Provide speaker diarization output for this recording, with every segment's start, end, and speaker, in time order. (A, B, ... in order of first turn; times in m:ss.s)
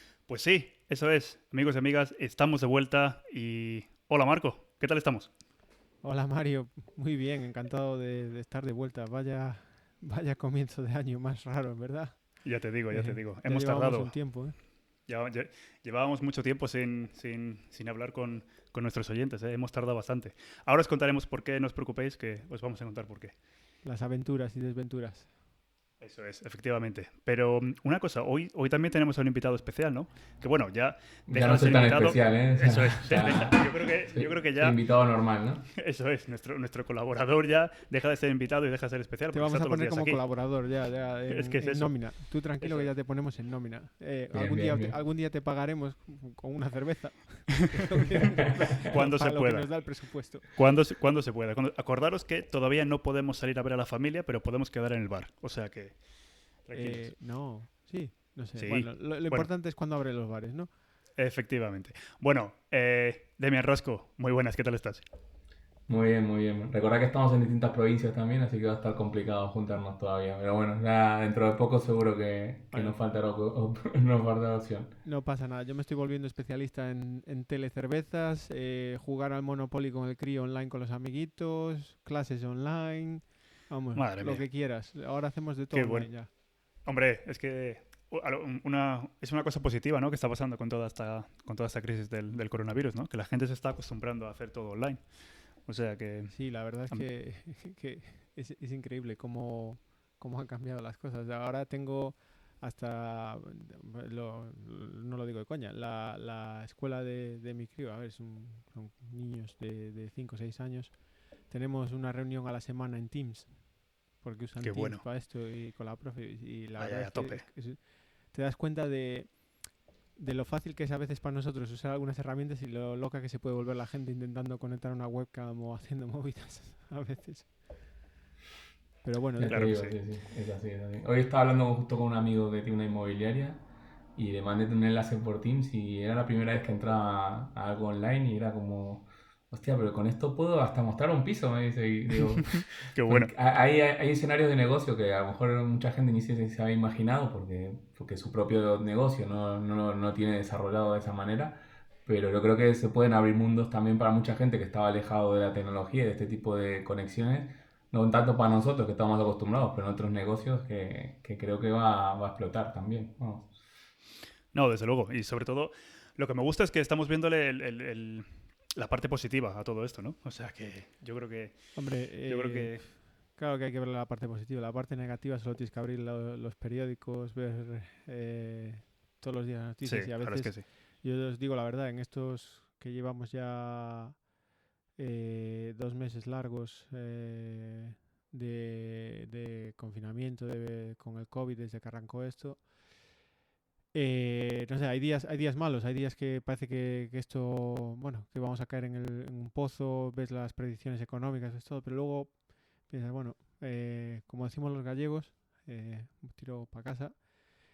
0:00.3-0:05.3 A
0:06.0-0:12.2 B
0:12.4-0:14.2 A
0:12.9-0:14.6 B
0:15.1-0:23.4 A
0:23.8-0:25.3 B
0:26.0-0:34.8 A
0:31.3-0:35.7 C
0:35.7-0:40.2 A
0:39.3-0:50.5 B
0:41.3-0:42.0 A
0:42.6-0:42.9 A
0:44.3-0:45.0 C
0:48.8-0:49.8 A
0:50.5-0:56.0 A
0:56.6-0:57.2 A
0:56.7-1:00.7 B
0:58.6-0:59.5 A
1:01.2-1:05.0 A
1:05.9-1:14.9 C
1:15.0-1:26.3 B
1:24.0-1:24.4 A
1:25.7-1:26.2 A
1:26.8-1:35.0 A
1:35.6-1:36.4 A
1:36.3-1:50.9 B
1:51.5-1:53.6 B
1:54.2-1:59.4 B
1:54.6-1:55.0 A
1:56.8-1:57.5 A
2:00.2-2:07.5 B
2:09.0-2:09.6 B
2:09.4-2:13.6 C
2:09.4-2:10.0 A
2:14.2-2:43.5 C
2:22.9-2:23.3 A
2:44.5-2:52.9 A
2:51.8-3:04.2 B
2:59.8-3:00.7 A
3:05.0-3:12.7 B
3:13.9-3:27.2 B